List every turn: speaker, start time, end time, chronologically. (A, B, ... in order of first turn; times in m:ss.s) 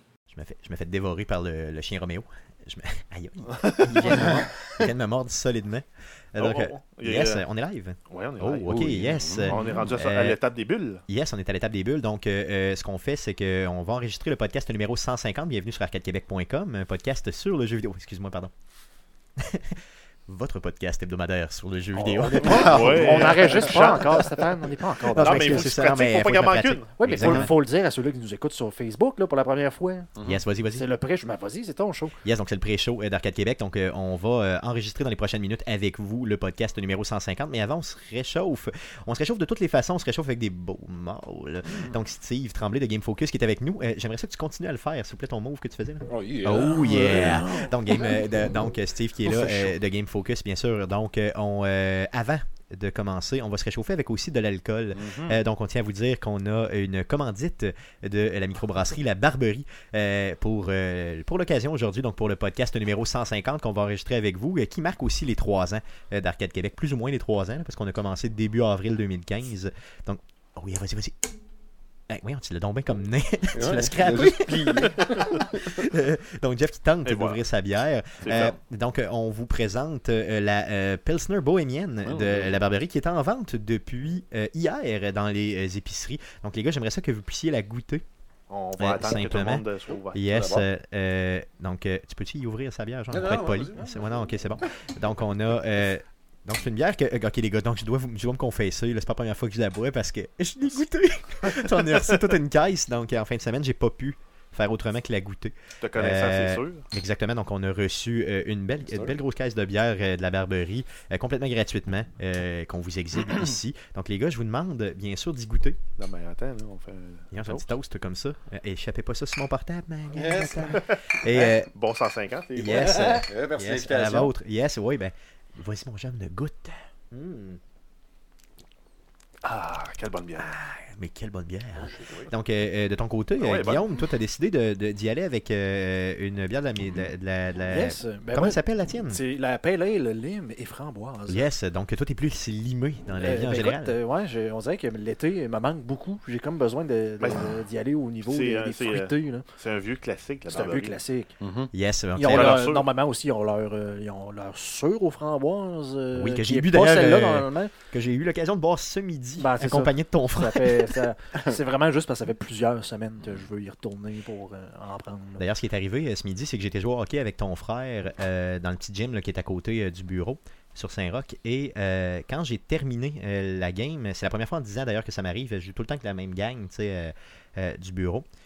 0:00.3-0:10.4 A
0:04.0-0:04.3 B
0:06.4-0:07.4 B
0:08.1-0:08.9 B
0:08.7-0:09.9 C
0:09.4-0:11.0 B
0:11.1-0:18.5 A
0:19.4-0:23.5 A
0:22.0-0:25.7 D
0:22.4-0:24.3 B
0:25.1-0:27.5 A
0:25.2-0:27.4 B
0:27.0-0:30.1 D
0:30.2-0:30.9 A
0:30.7-0:32.2 D
0:32.2-1:11.2 A
0:46.1-0:48.5 C
0:49.2-0:49.8 C
0:55.0-0:55.4 C
1:12.1-1:28.0 A
1:13.5-1:15.6 C
1:17.0-1:17.4 B
1:18.2-1:18.6 B
1:22.0-1:22.6 C
1:28.5-1:30.2 B
1:28.8-1:55.8 A
1:30.3-1:30.7 C
1:33.1-1:34.3 C
1:45.8-1:46.8 B
1:56.0-1:57.7 B
1:57.3-2:01.7 A
2:00.2-2:00.8 C
2:01.7-2:03.0 B
2:02.6-2:07.6 A
2:02.9-2:04.3 C
2:09.4-2:10.6 B
2:10.4-2:19.2 A
2:12.0-2:12.3 B
2:13.4-2:13.9 B
2:17.7-2:21.5 D
2:21.3-2:24.0 A
2:23.2-2:29.5 D
2:27.2-2:27.6 B
2:28.2-2:31.0 B
2:30.5-2:31.3 D
2:31.4-2:31.7 C
2:31.7-2:32.6 A
2:32.2-2:37.7 D
2:32.3-2:32.9 B
2:36.1-2:41.0 A
2:39.4-2:45.4 D
2:45.4-2:58.2 A